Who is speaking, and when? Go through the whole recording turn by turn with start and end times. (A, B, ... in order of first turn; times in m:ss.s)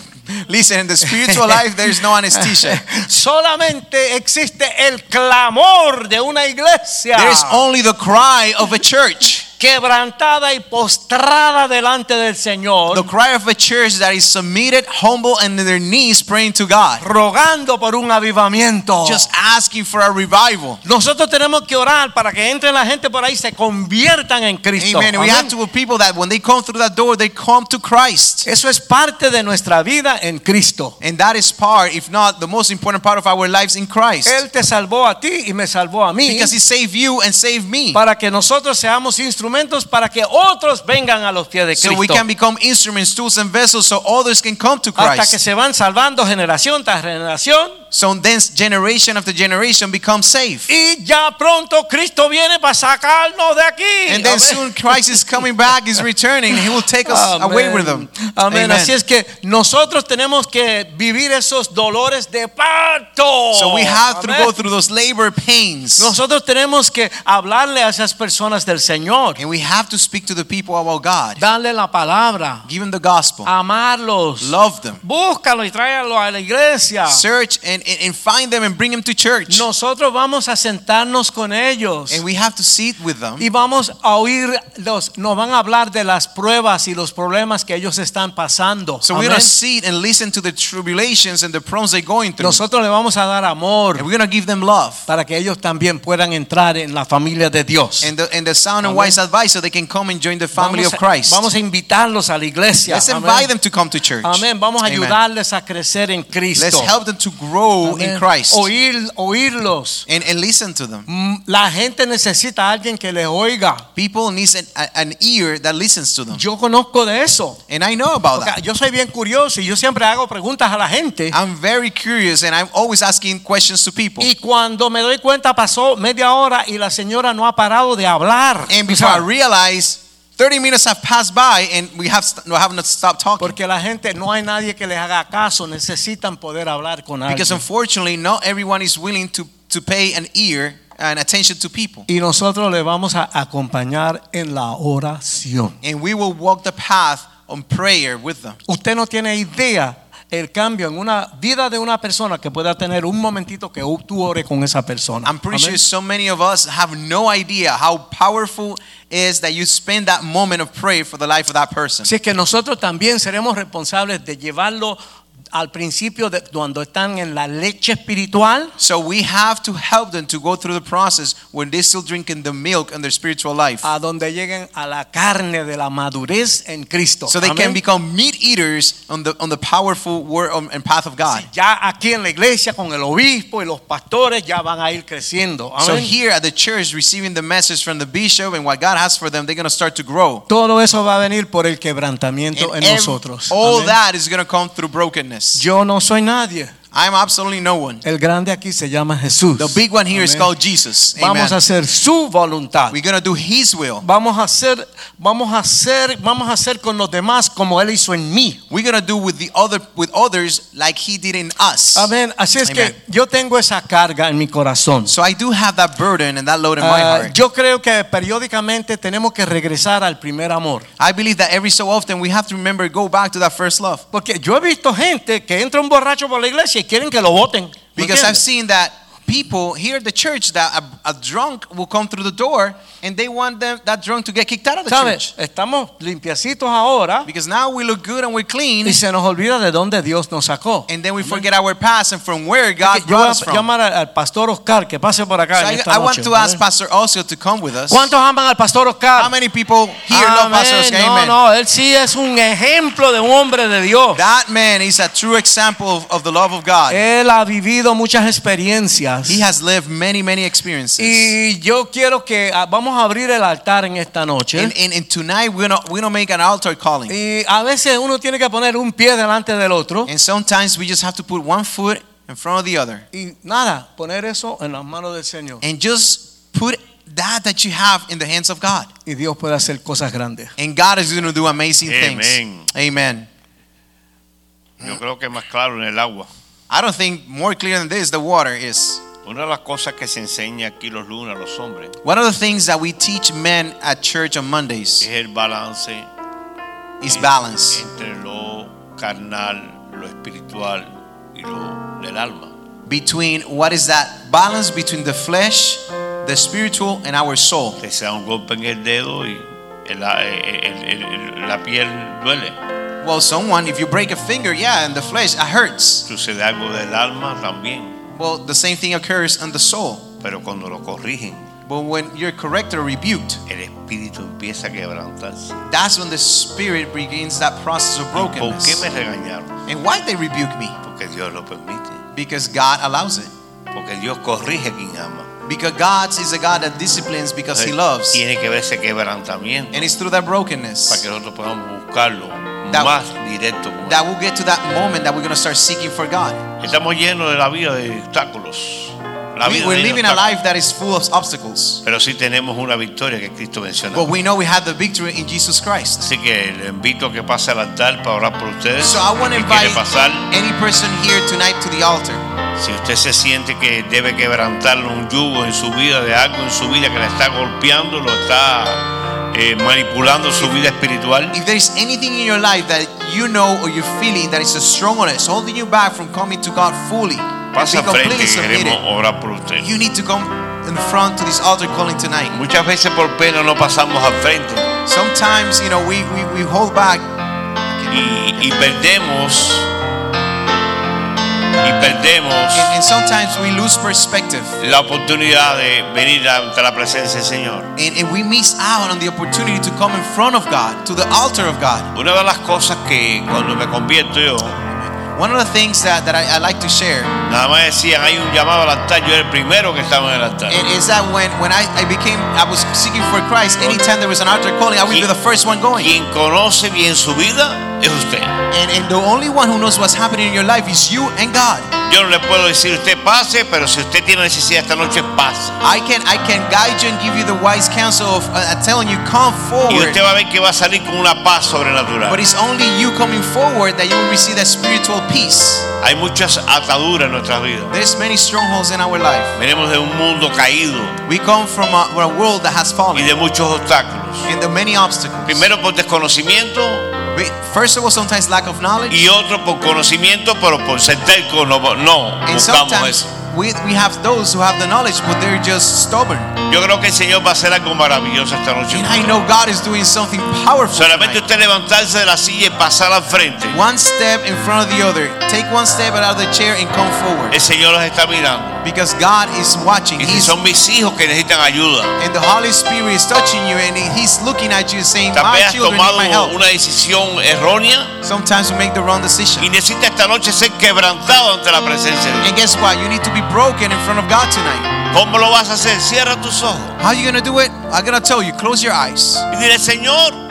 0:00.3-0:02.8 A
0:01.0-0:07.6 B
0:07.1-0:09.4 A
0:09.6-0:13.1 B
0:12.9-0:17.0 A
0:17.0-0:19.3 B
0:19.0-0:20.8 A
0:20.8-0:25.5 B
0:24.8-0:28.4 A
0:28.4-0:30.9 B
0:31.0-0:34.4 A
0:34.2-0:36.5 B
0:36.2-0:38.0 A
0:37.9-0:42.2 B
0:41.8-0:45.4 A
0:45.0-0:47.8 B
0:47.9-0:50.7 A
0:50.7-0:55.3 B
0:54.1-0:58.9 A
0:57.0-1:04.5 B
1:03.5-1:06.1 A
1:06.0-1:09.4 B
1:09.4-1:11.4 A
1:11.4-1:12.6 B
1:12.6-1:13.5 A
1:13.4-1:17.2 B
1:14.4-1:15.0 A
1:17.1-1:19.6 A
1:19.5-1:22.2 B
1:22.1-1:23.4 A
1:23.4-1:29.5 B
1:29.0-1:32.6 A
1:32.4-1:34.0 B
1:34.0-1:35.0 A
1:35.1-1:38.1 B
1:38.0-1:41.4 A
1:38.8-1:39.2 B
1:40.5-1:43.5 B
1:42.9-1:45.2 A
1:44.2-1:46.9 B
1:46.5-1:48.7 A
1:47.8-1:50.0 B
1:50.1-1:51.1 A
1:51.1-1:53.8 B
1:54.0-1:56.4 A
1:56.3-1:57.6 B
1:57.7-1:58.6 A
1:58.3-2:01.4 B
2:01.3-2:04.3 A
2:04.2-2:09.2 B
2:08.7-2:13.6 A
2:13.4-2:17.6 B
2:17.3-2:22.1 A
2:22.1-2:25.8 B
2:25.8-2:28.6 A
2:28.7-2:35.8 B
2:35.2-2:42.1 A
2:42.0-2:45.0 B
2:45.5-2:48.7 B
2:48.8-2:53.8 A
2:53.8-2:57.8 B
2:57.3-3:01.5 A
3:01.3-3:06.1 B
3:05.8-3:10.4 A
3:10.5-3:14.0 B
3:12.5-3:15.6 A
3:15.5-3:16.7 B
3:16.9-3:18.0 A
3:18.0-3:20.5 B
3:19.6-3:21.6 A
3:21.2-3:23.0 B
3:22.9-3:24.0 A
3:24.0-3:28.6 B
3:28.7-3:32.1 A
3:31.9-3:35.1 B
3:32.6-3:32.9 A
3:35.1-3:37.3 A
3:36.8-3:40.9 B
3:41.0-3:44.0 A
3:44.1-3:48.4 B
3:48.0-3:55.3 A
3:54.9-3:57.3 B
3:57.2-3:59.0 A
3:58.8-4:01.4 B
4:00.9-4:03.7 A
4:02.8-4:06.6 B
4:05.6-4:08.1 A
4:07.9-4:09.3 B
4:09.2-4:11.4 A
4:10.1-4:14.2 B
4:14.1-4:17.0 A
4:16.9-4:19.4 B
4:19.2-4:21.3 A
4:21.0-4:24.7 B
4:24.5-4:27.1 A
4:27.1-4:30.1 B
4:30.1-4:33.0 A
4:33.1-4:35.6 B
4:35.6-4:38.9 A
4:39.0-4:40.5 B
4:40.6-4:43.3 A
4:41.8-4:42.7 C
4:44.8-4:46.3 C
4:46.7-4:49.0 A
4:49.2-4:51.9 C
4:52.0-4:55.1 A
4:55.0-4:56.1 C
4:57.0-4:57.8 A
4:57.0-5:02.5 C
5:02.9-5:07.8 A
5:07.8-5:12.6 C
5:13.0-5:16.1 A
5:16.1-5:18.0 C
5:18.1-5:20.1 A
5:20.2-5:21.5 C
5:21.6-5:23.4 A
5:23.5-5:25.6 C
5:25.7-5:28.8 A
5:28.1-5:29.6 C
5:29.7-5:30.8 A
5:30.8-5:32.0 C
5:32.1-5:33.3 A
5:33.7-5:35.3 C
5:35.4-5:38.2 A
5:37.5-5:39.9 C
5:39.7-5:41.0 A
5:40.9-5:44.0 C
5:42.7-5:43.0 A
5:43.8-5:46.4 A
5:46.6-5:50.2 C
5:49.4-5:51.8 A
5:51.8-5:54.1 C
5:53.9-5:56.1 A
5:56.0-6:00.3 C
5:58.8-6:02.2 A
6:02.6-6:11.3 C
6:11.3-6:18.8 A
6:17.5-6:19.7 C
6:19.6-6:22.4 A
6:22.3-6:24.7 C
6:24.8-6:27.0 A
6:27.7-6:28.6 A
6:27.9-6:29.7 C
6:31.6-6:32.7 C
6:32.5-6:34.6 A
6:34.6-6:37.7 C
6:37.8-6:41.9 A
6:41.9-6:44.6 C
6:45.1-6:47.1 A
6:47.2-6:50.6 C
6:50.5-6:55.9 A
6:55.7-6:58.3 C
6:58.5-7:01.7 A
7:01.8-7:05.6 C
7:05.6-7:10.0 A
7:09.7-7:12.2 C
7:12.0-7:15.7 A
7:15.8-7:17.7 C
7:17.7-7:19.3 A
7:19.3-7:21.0 C
7:21.0-7:23.1 A
7:22.9-7:24.3 C
7:24.2-7:25.5 A
7:25.3-7:26.9 C
7:27.1-7:29.1 A
7:28.9-7:33.0 C
7:32.2-7:36.3 A
7:36.5-7:39.2 C
7:38.7-7:41.2 A
7:40.7-7:43.6 C
7:43.5-7:47.3 A
7:47.3-7:48.6 C
7:48.6-7:50.3 A
7:50.0-7:52.0 C
7:52.0-7:56.4 A
7:55.1-7:57.9 C
7:58.0-7:59.5 A
7:59.4-8:02.3 C
8:02.2-8:04.7 A
8:04.9-8:06.8 C
8:06.8-8:09.2 A
8:09.3-8:10.2 C